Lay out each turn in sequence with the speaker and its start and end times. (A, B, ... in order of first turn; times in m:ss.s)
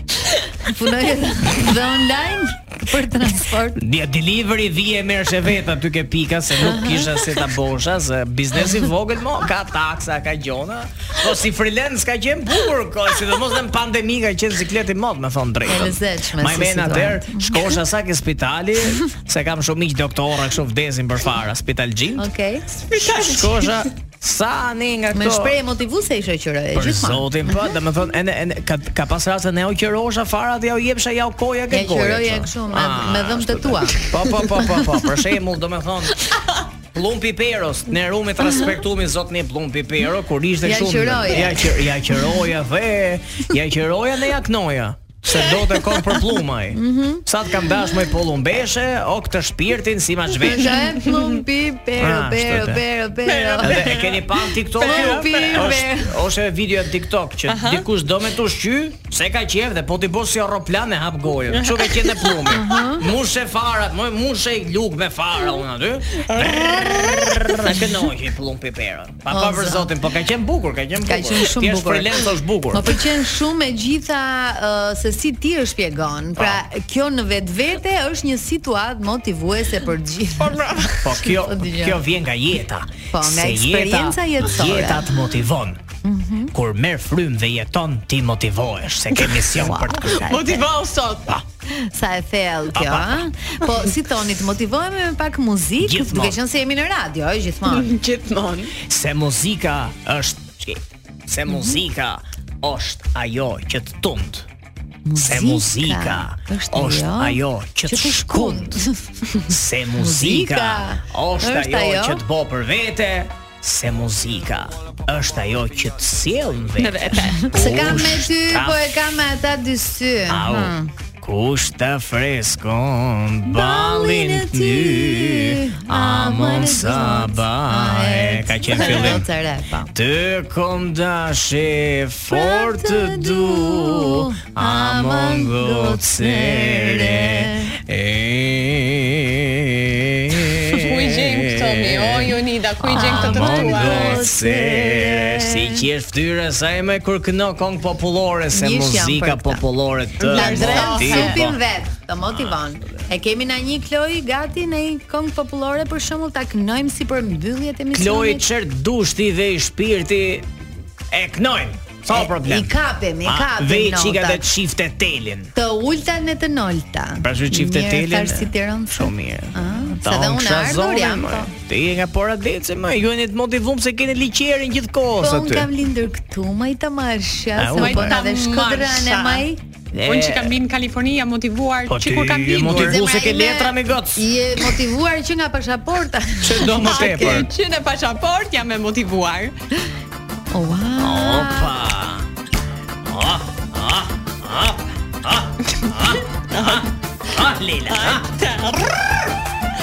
0:00.6-0:03.8 A
0:03.8-0:22.2 B
0:06.6-0:07.1 A
0:15.7-0:17.8 A
0:22.2-0:22.7 A
0:22.8-0:23.9 C
0:23.0-0:25.6 B
0:25.1-0:27.6 A
0:26.7-0:36.4 B
0:31.7-0:34.0 A
0:36.9-0:50.9 B
0:40.6-0:41.7 A
0:45.5-0:46.1 C
0:46.7-0:47.2 A
0:50.5-0:54.0 A
0:52.0-0:52.8 B
0:53.2-0:55.7 C
0:53.6-1:13.0 B
0:54.8-0:56.2 A
0:57.5-0:57.8 C
1:01.5-1:02.5 C
1:02.5-1:03.0 A
1:06.2-1:07.9 C
1:09.3-1:09.9 A
1:11.0-1:22.0 A
1:20.4-1:21.2 C
1:21.0-1:25.8 B
1:23.1-1:25.1 A
1:26.0-1:26.5 A
1:26.5-1:30.3 B
1:29.1-1:31.4 C
1:29.5-1:30.6 A
1:31.7-1:37.9 A
1:32.7-1:33.3 B
1:35.8-1:36.4 B
1:37.6-1:38.8 C
1:38.8-1:44.5 B
1:41.5-1:41.8 A
1:45.0-1:49.0 A
1:45.2-1:48.8 B
1:49.4-1:59.0 B
1:50.0-1:52.2 A
1:56.8-1:57.5 C
1:57.3-2:00.9 A
2:00.3-2:09.3 B
2:03.4-2:09.9 A
2:08.8-2:09.1 C
2:09.9-2:31.6 B
2:12.3-2:17.8 A
2:20.7-2:24.2 C
2:22.9-2:25.8 A
2:28.5-2:29.6 A
2:30.2-2:38.4 A
2:30.2-2:31.4 C
2:32.2-2:32.6 B
2:37.9-2:40.5 B
2:41.1-2:42.7 B
2:42.1-2:44.4 A
2:43.2-2:45.5 B
2:45.5-2:51.5 A
2:47.2-2:55.7 B
2:55.2-2:59.6 A
2:57.6-2:58.2 B
2:57.8-2:59.4 C
2:59.9-3:00.5 B
3:00.0-3:03.0 C
3:01.9-3:04.2 B
3:02.6-3:07.4 A
3:06.4-3:07.5 B
3:06.7-3:09.5 C
3:10.5-3:11.7 A
3:11.0-3:12.3 B
3:13.0-3:18.3 B
3:15.7-3:16.9 C
3:17.9-3:19.3 C